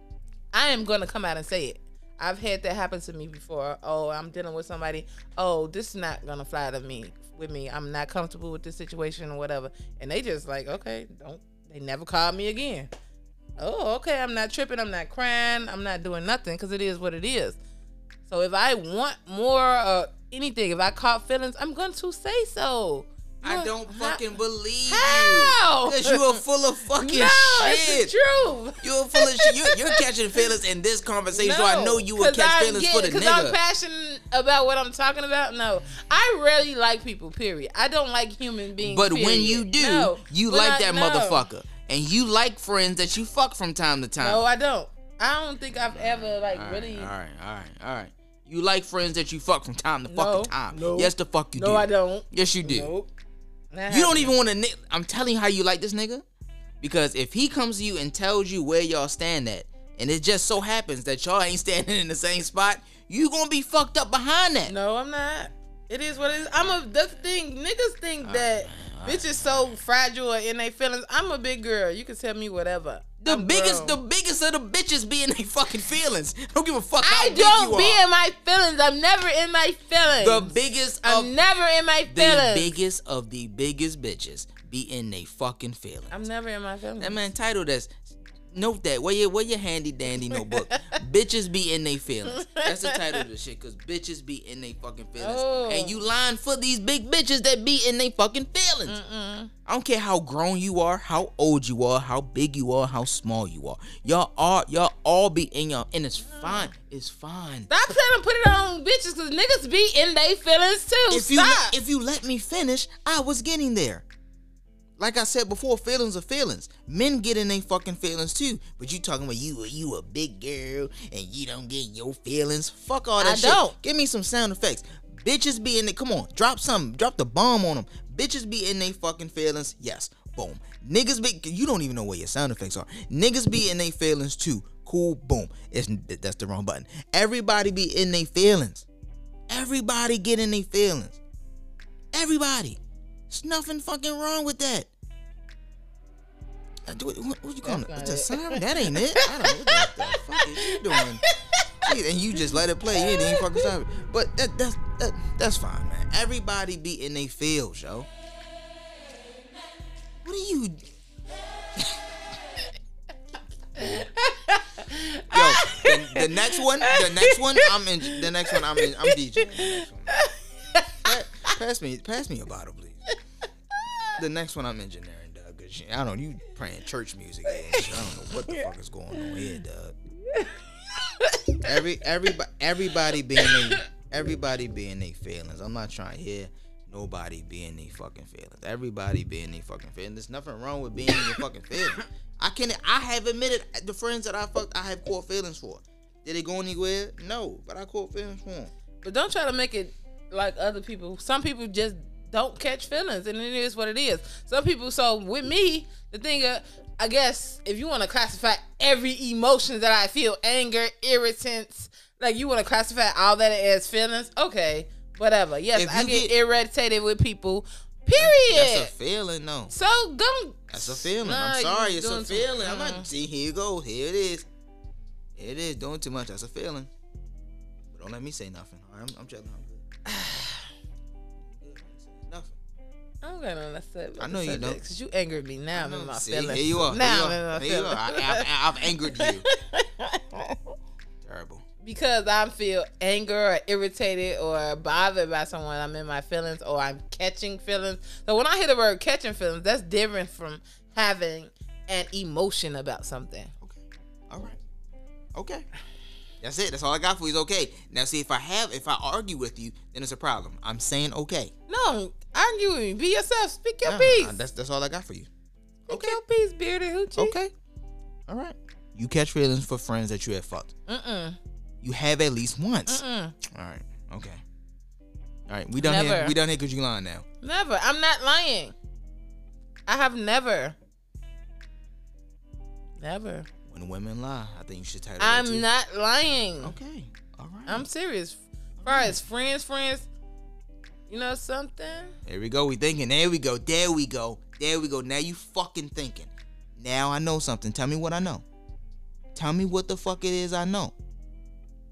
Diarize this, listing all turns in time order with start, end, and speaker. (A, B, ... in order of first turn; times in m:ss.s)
0:00.5-0:12.9 A
0:13.6-0:17.6 A
0:18.3-0:24.2 A
0:23.4-0:28.1 B
0:24.9-0:26.4 A
0:27.0-0:30.0 A
0:28.8-0:33.6 B
0:31.3-0:41.5 A
0:38.8-0:44.4 B
0:44.2-0:47.1 A
0:45.9-0:52.9 B
0:50.1-0:53.1 A
0:53.7-0:54.3 A
0:53.9-0:56.2 B
0:56.8-1:04.7 B
1:04.7-1:14.0 A
1:08.2-1:09.8 B
1:13.2-1:18.0 B
1:17.0-1:22.8 A
1:20.2-1:21.3 B
1:22.1-1:26.1 B
1:26.1-1:27.2 A
1:27.0-1:27.9 B
1:28.5-1:39.0 B
1:30.3-1:30.9 A
1:32.3-1:33.2 A
1:35.2-1:36.0 A
1:38.9-1:39.5 A
1:39.7-1:47.7 B
1:46.2-1:46.7 A
1:47.7-1:51.8 A
1:51.1-1:54.1 B
1:55.0-2:18.9 B
2:03.2-2:03.8 A
2:19.5-2:21.2 B
2:22.1-2:24.9 B
2:26.9-2:31.2 B
2:27.6-2:33.7 A
2:31.8-2:38.1 B
2:40.2-2:40.8 B
2:43.8-2:51.5 A
2:45.3-2:50.2 B
2:51.0-2:53.0 B
2:53.8-2:54.1 A
2:54.2-3:00.0 B
2:57.5-2:57.9 A
2:58.4-2:59.3 A
3:00.3-3:01.7 A
3:01.6-3:18.7 B
3:03.4-3:03.8 A
3:19.0-3:38.9 A
3:35.7-3:36.3 B
3:38.2-3:39.7 B
3:39.7-3:43.1 A
3:40.7-3:44.5 B
3:45.4-3:46.9 B
3:47.9-3:49.8 B
3:50.1-3:50.7 A
3:51.4-3:52.6 B
3:53.2-4:00.7 A
3:54.2-3:54.8 B
3:55.7-3:59.5 B
4:01.2-4:01.6 B
4:01.8-4:13.5 A
4:13.6-4:14.6 B
4:15.3-4:15.7 B
4:16.4-4:21.5 B
4:21.7-4:24.4 A
4:23.8-4:25.3 B
4:25.9-4:26.2 B
4:25.9-4:27.4 A
4:27.2-4:27.5 B
4:28.3-4:30.7 B
4:30.9-4:31.4 A
4:31.8-4:34.4 B
4:32.9-4:33.4 A
4:35.5-4:37.2 B
4:35.8-4:36.4 A
4:37.4-4:38.8 A
4:39.9-4:40.8 A
4:43.0-4:43.5 A
4:43.7-4:45.7 B
4:45.2-4:46.8 A
4:46.6-4:47.9 B
4:47.7-4:50.1 A
4:48.8-4:49.2 B
4:51.1-4:52.2 A
4:52.2-4:58.4 B
4:59.3-5:00.9 B